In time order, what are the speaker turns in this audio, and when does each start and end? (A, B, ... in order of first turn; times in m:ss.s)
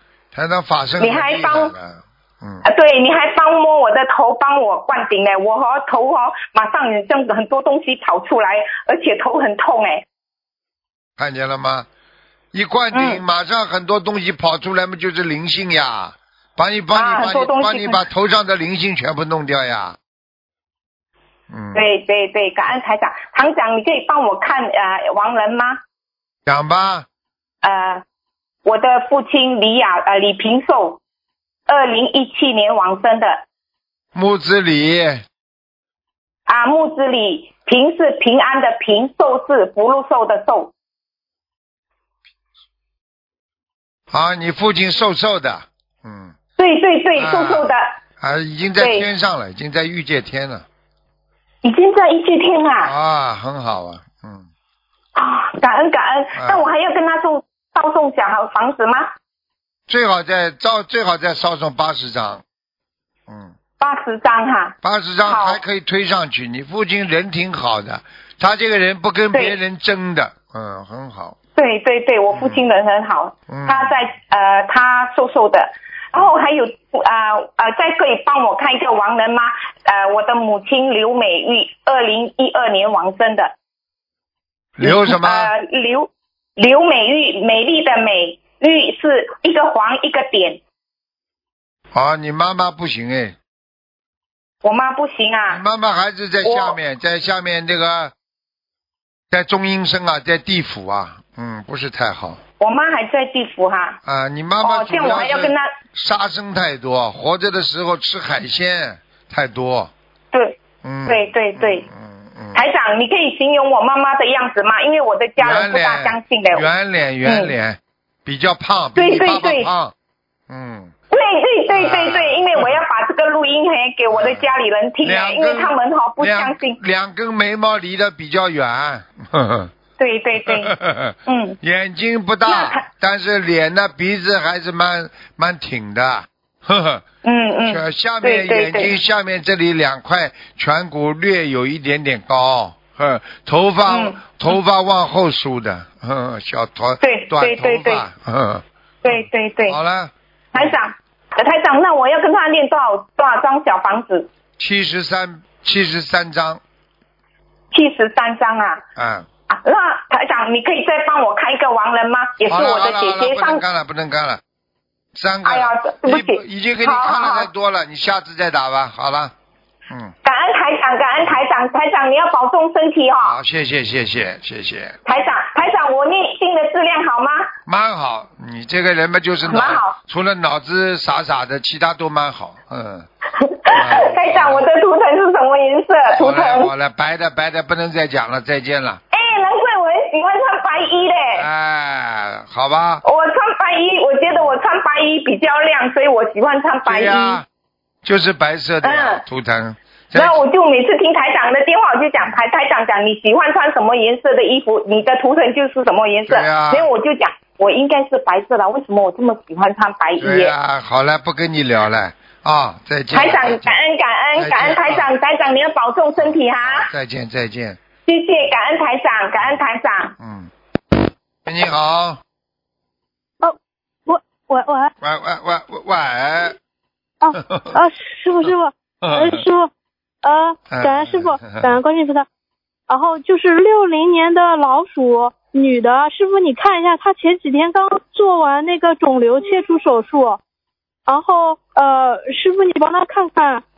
0:00.3-0:02.6 A
0:01.0-0:01.7 B
0:02.6-0:10.0 B
0:11.2-0:11.9 A
0:12.5-0:20.0 A
0:12.9-0:13.2 B
0:16.9-0:18.0 B
0:21.5-0:21.8 A
0:21.7-0:25.8 B
0:26.5-0:27.0 A
0:27.6-0:28.0 B
0:28.6-0:31.0 B
0:31.7-0:33.4 B
0:34.1-0:35.2 A
0:36.5-0:40.7 B
0:44.1-0:46.3 A
0:46.6-0:47.9 B
0:47.1-0:50.6 A
0:48.8-0:49.1 B
0:51.6-0:52.9 B
0:52.8-0:54.5 A
0:55.2-0:59.1 B
0:56.4-0:56.7 A
0:59.9-1:02.4 A
1:03.3-1:03.5 A
1:03.8-1:05.6 B
1:04.8-1:11.4 A
1:09.3-1:09.6 B
1:11.6-1:23.5 B
1:12.3-1:12.6 A
1:13.5-1:14.0 A
1:24.8-1:25.5 A
1:24.8-1:30.6 B
1:31.9-1:33.4 A
1:34.6-1:35.6 B
1:35.5-1:38.1 A
1:36.4-1:36.8 B
1:39.3-1:42.4 A
1:42.6-1:44.0 B
1:44.0-1:49.9 A
1:44.6-1:45.7 B
1:50.3-1:51.9 B
1:50.8-1:52.6 A
1:52.5-1:56.6 B
1:55.4-1:59.9 A
1:57.2-1:57.5 B
1:59.0-1:59.7 B
2:00.5-2:00.9 A
2:01.1-2:06.8 B
2:01.7-2:02.8 A
2:04.1-2:09.7 A
2:10.0-2:10.7 B
2:10.4-2:17.0 A
2:11.3-2:11.6 B
2:12.4-2:12.8 B
2:17.2-2:19.0 B
2:17.7-2:30.8 A
2:23.8-2:24.6 B
2:27.0-2:28.0 B
2:29.0-2:29.8 B
2:30.5-2:34.3 B
2:34.6-2:36.6 A
2:37.7-2:38.8 B
2:39.0-2:39.3 A
2:39.5-2:43.6 B
2:42.5-2:44.4 A
2:45.1-2:49.3 A
2:45.4-2:47.5 B
2:49.9-2:50.1 A
2:50.2-2:53.4 B
2:53.2-2:55.0 A
2:55.0-2:57.5 B
2:57.6-3:03.1 A
2:59.5-3:00.0 B
3:03.4-3:06.7 B
3:03.7-3:04.6 A
3:06.1-3:09.0 A
3:09.1-3:11.5 B
3:11.3-3:13.0 A
3:13.0-3:17.4 B
3:14.3-3:14.6 A
3:16.8-3:17.4 A
3:18.0-3:20.4 A
3:18.8-3:19.2 B
3:20.1-3:30.5 B
3:26.3-3:26.9 A
3:30.2-3:33.8 A
3:33.1-3:36.9 B
3:34.3-3:35.1 A
3:36.2-3:37.8 A
3:38.1-3:40.1 B
3:40.2-3:40.5 A
3:41.4-3:42.2 A
3:44.0-3:44.9 C
3:45.0-3:46.6 A
3:47.2-3:49.7 C
3:47.3-3:47.8 A
3:49.0-3:49.4 A
3:50.2-3:52.2 C
3:50.7-3:51.8 A
3:52.9-4:00.4 C
4:01.0-4:03.6 C